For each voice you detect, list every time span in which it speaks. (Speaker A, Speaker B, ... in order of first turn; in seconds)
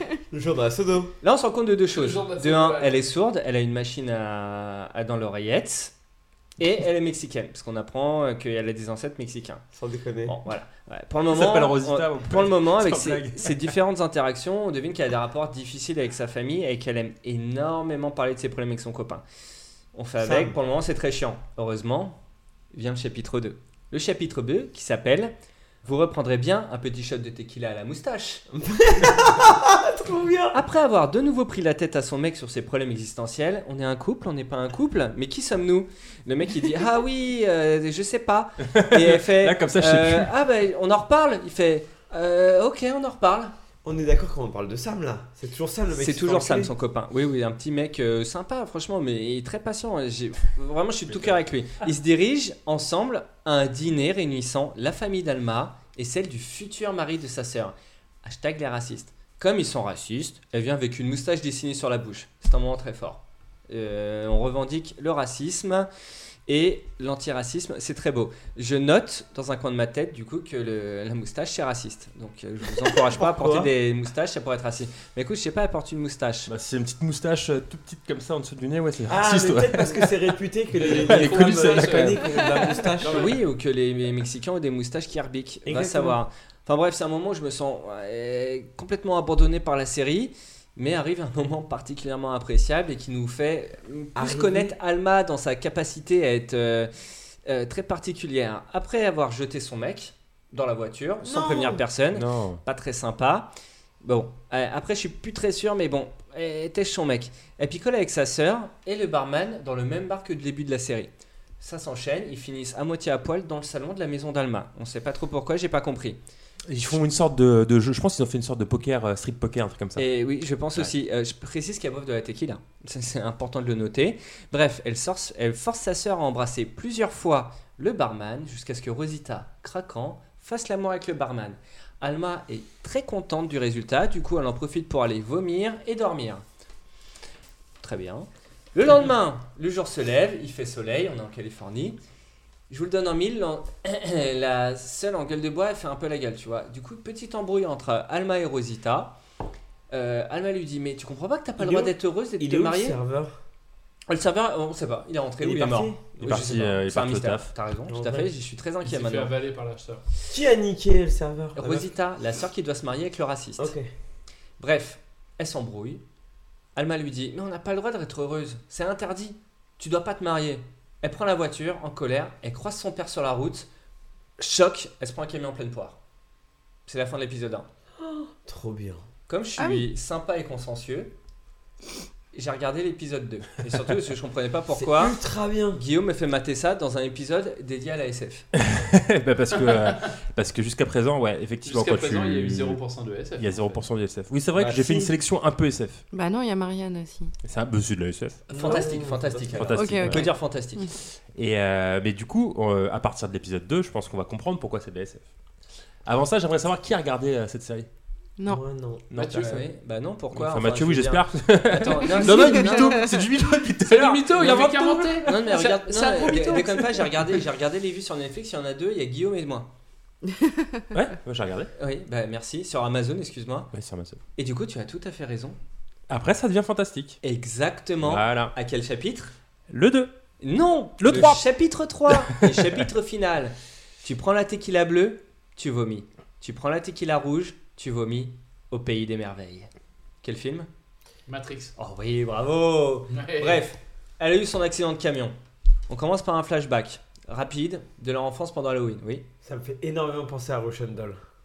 Speaker A: 0.3-1.1, 9.7-10.4, 20.2-20.6, 28.5-30.6, 43.8-46.7, 73.1-73.7, 79.1-83.3, 85.7-86.2, 94.2-94.8, 101.2-101.8, 151.6-153.3, 155.4-156.5, 157.9-158.3, 160.3-161.9, 163.6-163.9, 178.0-179.0, 184.7-185.8, 194.6-195.1, 198.5-199.8, 208.5-209.5, 249.4-251.2
Speaker B: 1.2-5.9, 6.6-9.6, 10.2-19.2, 19.9-22.2, 22.7-28.4, 30.5-43.5, 46.0-65.9, 66.5-76.5, 83.1-96.9, 97.5-103.5, 104.0-116.2, 120.0-136.4, 137.8-142.0, 142.7-149.2, 149.9-153.0, 154.1-159.3, 161.6-163.7, 164.6-166.0, 166.8-173.7, 174.4-176.0, 176.9-177.7, 179.3-181.1, 182.3-185.2, 185.8-188.5, 198.5-200.8, 209.4-213.1, 215.2-219.7, 221.8-223.7, 224.4-225.6, 227.2-229.3, 230.4-239.7, 240.2-240.7, 241.8-245.3, 245.9-249.3
Speaker C: 1.9-3.1, 80.8-83.4, 158.8-160.0, 189.7-189.9, 191.7-193.8, 209.2-209.6, 213.8-216.9, 241.3-241.7, 243.1-243.6
Speaker D: 11.3-13.8, 38.7-40.3, 51.1-51.4, 76.5-80.1, 80.8-82.3, 102.1-102.6, 116.7-120.1, 156.2-157.5, 188.6-192.8, 193.4-196.0, 197.4-198.8, 199.5-200.4, 201.3-205.2, 206.1-207.9, 209.1-209.7, 210.3-215.5, 220.9-221.7, 223.7-224.2, 226.1-227.2, 228.0-228.5, 229.7-230.1, 231.0-231.5, 232.1-232.8
Speaker E: 179.6-179.8, 196.1-197.3, 199.8-200.9, 220.3-220.7